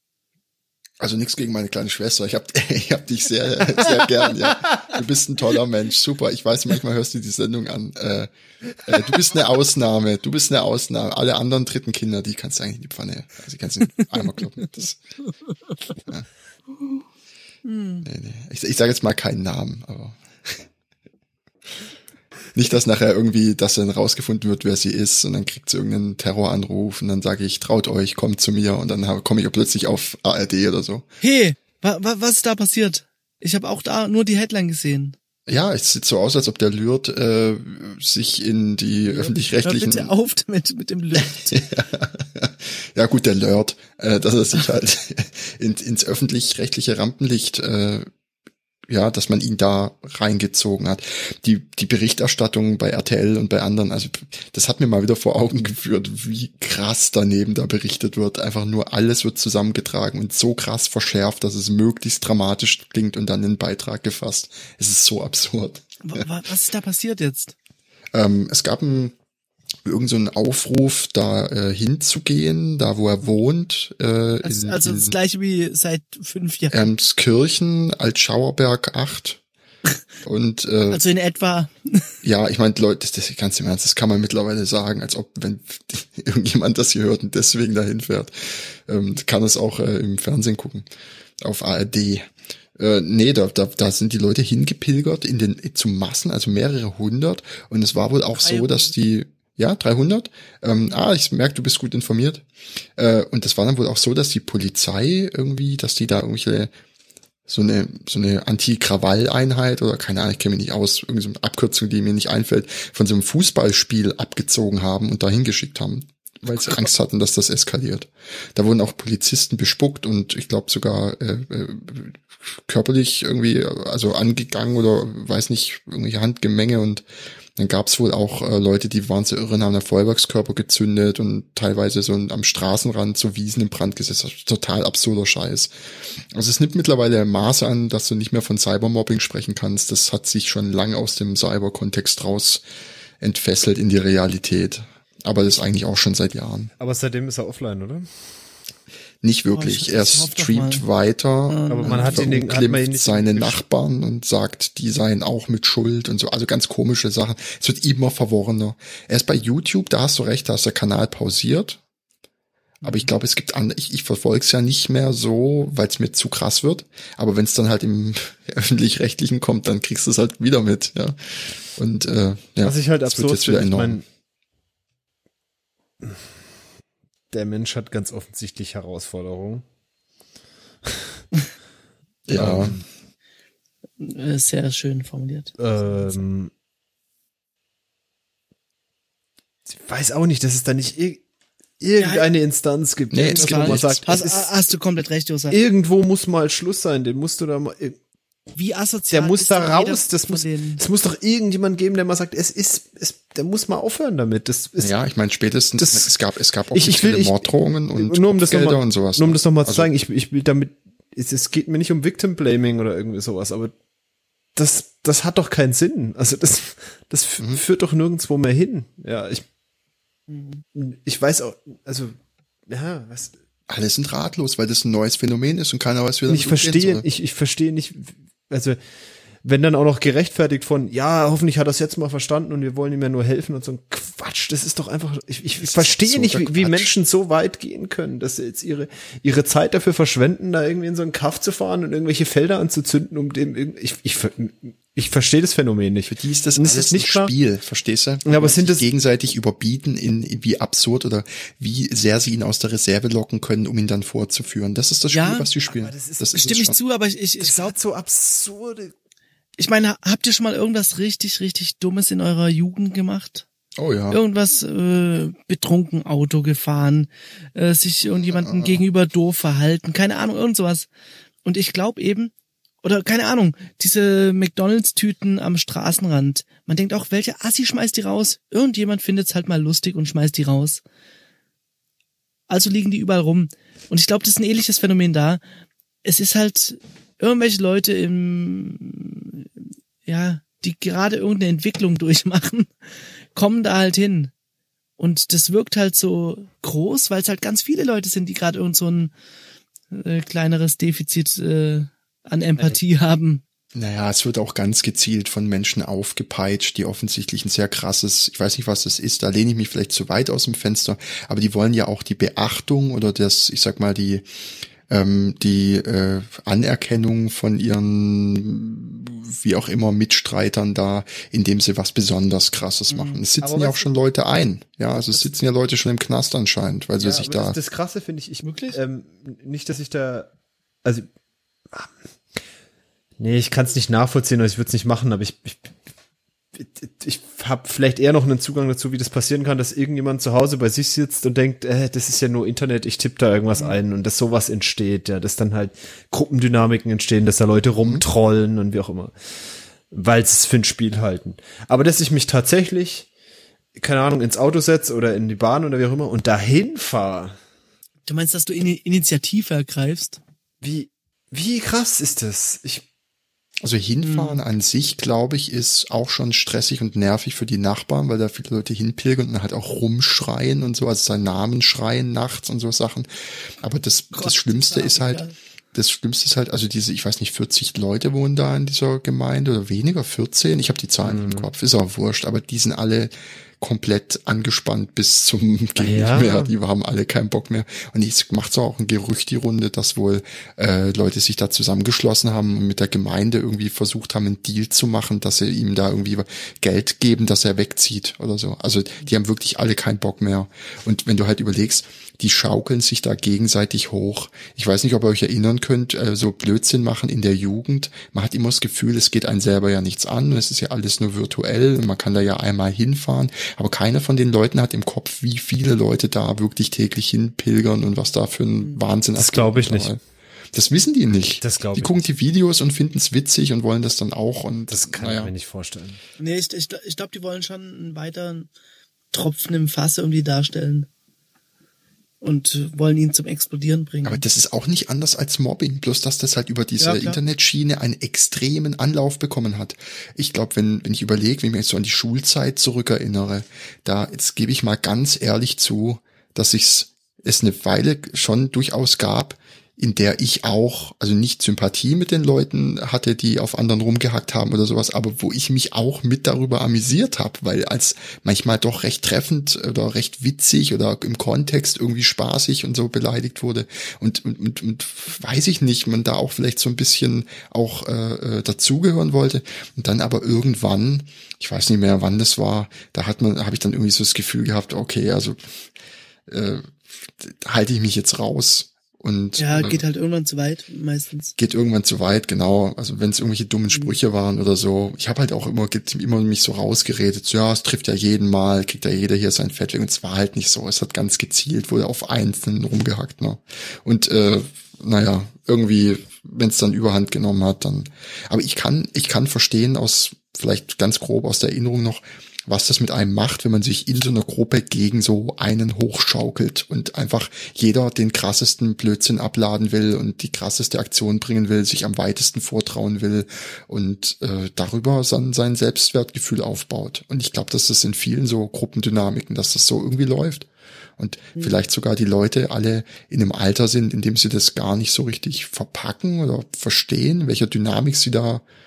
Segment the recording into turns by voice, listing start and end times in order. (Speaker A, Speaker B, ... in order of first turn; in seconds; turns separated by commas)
Speaker A: 1.0-8.3, Speaker A: 8.8-15.0, Speaker B: 17.6-18.1, Speaker A: 18.0-20.6, Speaker A: 22.5-31.1, Speaker B: 31.2-35.1, Speaker A: 35.5-40.1, Speaker B: 39.1-41.6, Speaker A: 41.2-48.1, Speaker A: 48.9-66.2, Speaker B: 66.0-67.5, Speaker A: 68.1-69.1, Speaker A: 69.8-75.2, Speaker B: 74.4-76.9, Speaker A: 76.7-79.4, Speaker A: 80.2-81.0, Speaker B: 80.9-82.1, Speaker A: 82.2-90.9, Speaker A: 91.4-102.4, Speaker B: 98.4-98.9, Speaker A: 103.0-106.7, Speaker A: 107.5-127.0, Speaker A: 127.5-142.6, Speaker A: 143.2-146.7, Speaker C: 146.8-148.3, Speaker A: 149.2-161.8, Speaker B: 149.5-150.8, Speaker B: 151.5-152.2, Speaker C: 151.7-153.6, Speaker A: 162.8-174.0, Speaker C: 172.6-174.0, Speaker C: 177.3-179.6, Speaker A: 182.3-182.8, Speaker C: 182.3-182.8, Speaker B: 184.0-186.2, Speaker C: 185.6-186.5, Speaker C: 189.7-191.2, Speaker C: 191.8-194.6, Speaker B: 192.0-192.2, Speaker A: 193.1-194.2, Speaker B: 193.3-195.6, Speaker C: 195.5-198.0, Speaker B: 198.6-200.8, Speaker C: 199.1-204.9, Speaker A: 204.8-209.9, Speaker C: 205.8-206.1, Speaker C: 206.7-213.7, Speaker C: 214.5-219.4, Speaker B: 220.3-220.6, Speaker C: 220.7-222.1, Speaker C: 222.7-223.3, Speaker A: 223.7-227.0, Speaker C: 226.3-228.8, Speaker C: 229.4-247.3, Speaker A: 235.6-236.9, Speaker A: 246.1-256.7, Speaker C: 248.2-248.8, Speaker B: 255.1-255.5, Speaker C: 255.7-256.6, Speaker B: 256.3-257.8, Speaker C: 257.4-258.9, Speaker B: 259.6-263.4, Speaker A: 263.8-264.2, Speaker B: 264.1-270.9, Speaker A: 268.2-268.8, Speaker B: 271.4-272.3, Speaker B: 272.8-280.8, Speaker B: 282.5-285.4, Speaker B: 286.0-289.5, Speaker B: 290.0-292.7, Speaker B: 293.3-294.3, Speaker B: 295.0-299.1, Speaker B: 299.9-303.4, Speaker A: 303.7-314.2, Speaker A: 314.9-327.6, Speaker B: 322.9-323.2, Speaker C: 323.4-323.9, Speaker C: 325.0-325.2, Speaker C: 327.0-330.3, Speaker B: 328.4-328.8, Speaker C: 333.2-335.7, Speaker C: 336.5-349.1, Speaker B: 343.5-343.8, Speaker C: 349.9-353.1, Speaker C: 353.8-357.4, Speaker B: 358.1-360.2, Speaker C: 360.6-362.8, Speaker A: 363.6-420.0, Speaker B: 364.0-364.4, Speaker B: 374.1-375.3, Speaker C: 381.0-381.5, Speaker C: 385.8-386.5, Speaker C: 419.1-420.0, Speaker A: 420.5-425.3, Speaker C: 421.4-422.1, Speaker C: 424.7-426.0, Speaker B: 426.2-428.5, Speaker B: 429.1-430.9, Speaker B: 432.2-434.2, Speaker A: 434.0-475.4, Speaker B: 436.8-437.2, Speaker A: 476.3-479.8, Speaker B: 479.4-481.3, Speaker A: 481.4-528.4